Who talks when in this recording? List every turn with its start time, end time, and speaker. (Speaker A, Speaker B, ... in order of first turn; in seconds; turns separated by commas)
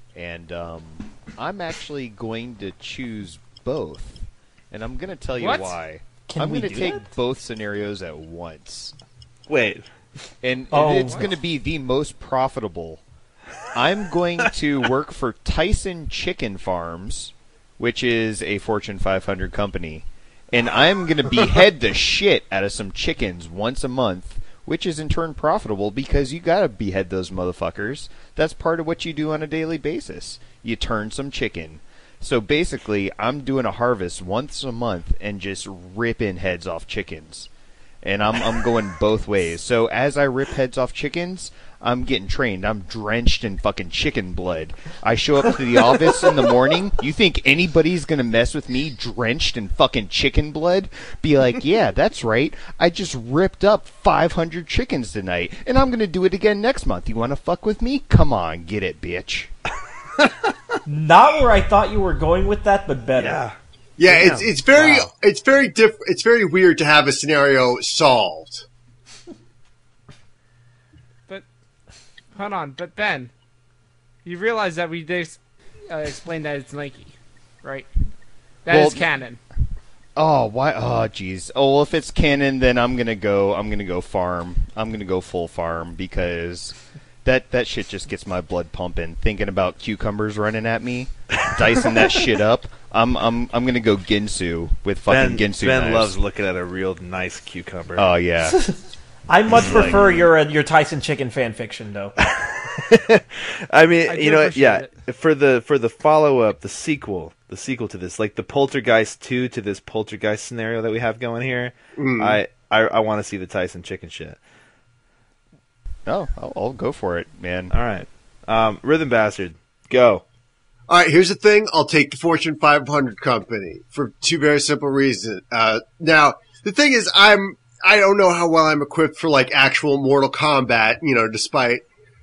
Speaker A: 0.1-8.9, Speaker B: 5.4-5.8, Speaker C: 6.3-7.1, Speaker D: 9.5-9.8, Speaker A: 10.4-13.0, Speaker C: 10.7-11.3, Speaker A: 13.7-37.5, Speaker A: 38.0-59.5, Speaker C: 60.9-63.4, Speaker D: 63.2-65.1, Speaker E: 64.0-68.6, Speaker B: 72.3-73.3, Speaker B: 74.2-77.9, Speaker B: 78.6-79.4, Speaker A: 78.7-79.0, Speaker A: 80.2-96.2, Speaker D: 95.1-98.1, Speaker A: 98.0-98.6, Speaker C: 98.4-102.2, Speaker A: 99.5-100.0, Speaker D: 99.5-100.2, Speaker D: 102.2-114.4, Speaker B: 104.0-104.9, Speaker E: 112.0-112.4, Speaker A: 116.0-117.7, Speaker D: 117.7-120.2, Speaker E: 120.9-131.8